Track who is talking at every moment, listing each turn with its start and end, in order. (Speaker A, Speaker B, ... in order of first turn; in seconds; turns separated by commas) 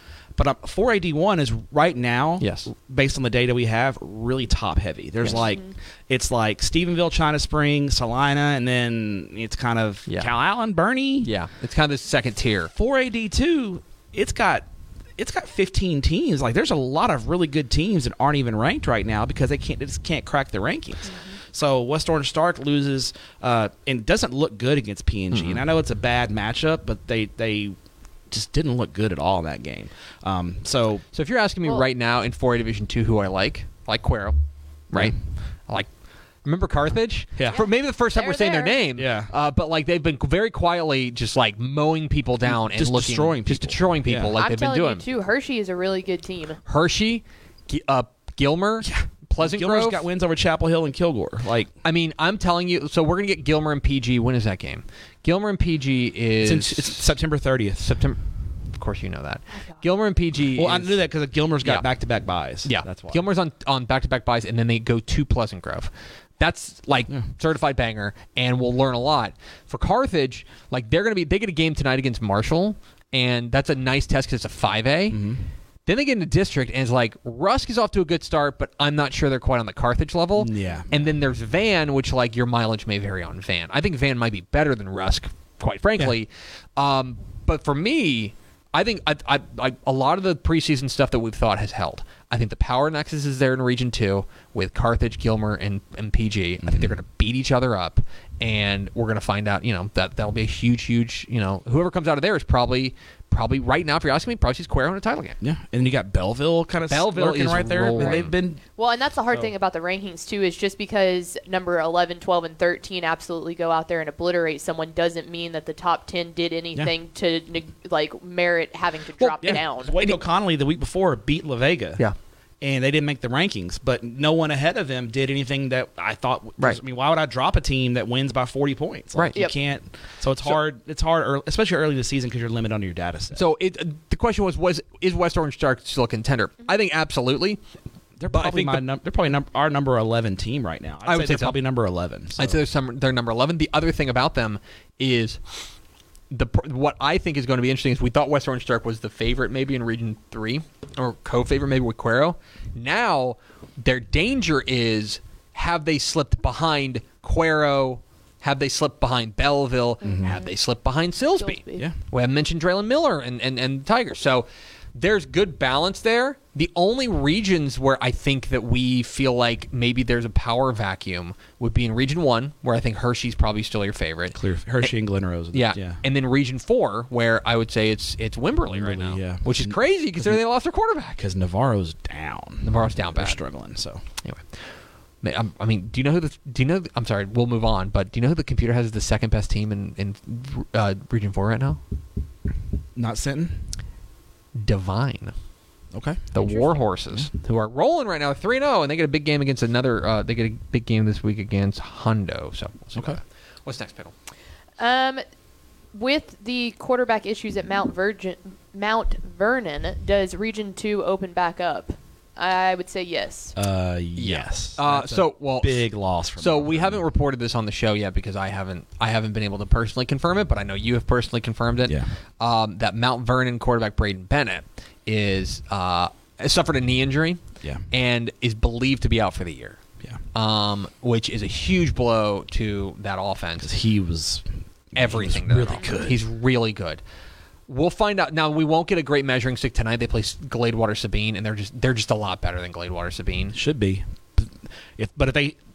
Speaker A: 0.3-11.3, Speaker B: 2.4-2.7, Speaker B: 11.2-12.7, Speaker A: 12.8-14.7, Speaker A: 15.2-27.8, Speaker B: 25.3-25.6, Speaker A: 28.3-31.0, Speaker B: 31.1-34.4, Speaker B: 34.9-35.9, Speaker B: 36.4-45.0, Speaker A: 37.4-37.6, Speaker C: 37.5-38.8, Speaker A: 39.0-39.3, Speaker A: 42.5-44.4, Speaker C: 44.4-46.6, Speaker B: 46.6-50.0, Speaker A: 48.8-51.7, Speaker B: 51.8-57.0, Speaker A: 56.4-57.9, Speaker B: 57.8-61.0, Speaker A: 60.5-63.2, Speaker B: 62.6-75.2, Speaker A: 75.1-75.5, Speaker B: 75.8-105.4, Speaker A: 80.3-81.1, Speaker A: 96.6-96.9, Speaker A: 105.4-108.6, Speaker B: 106.9-108.3, Speaker C: 107.9-120.0, Speaker A: 119.4-122.0, Speaker A: 122.6-133.4, Speaker B: 133.3-137.6, Speaker A: 138.2-142.6, Speaker B: 138.3-138.8, Speaker B: 141.0-141.6, Speaker B: 142.3-145.4, Speaker B: 146.3-174.9, Speaker A: 160.0-160.4, Speaker C: 160.0-160.5, Speaker C: 161.4-161.8, Speaker A: 174.3-176.0, Speaker B: 175.5-181.2, Speaker A: 178.7-180.4, Speaker A: 181.2-184.0, Speaker B: 182.6-183.4, Speaker B: 184.2-184.7, Speaker B: 185.2-191.8, Speaker A: 192.9-193.7, Speaker B: 194.5-195.3, Speaker A: 195.9-196.3, Speaker B: 196.3-204.1, Speaker C: 196.3-196.8, Speaker C: 204.8-205.2, Speaker C: 205.9-213.5, Speaker A: 213.6-217.0, Speaker B: 214.2-229.8, Speaker A: 221.8-222.1, Speaker B: 230.3-233.7, Speaker A: 233.6-236.2, Speaker B: 234.9-237.0, Speaker B: 237.7-243.6, Speaker A: 243.5-245.6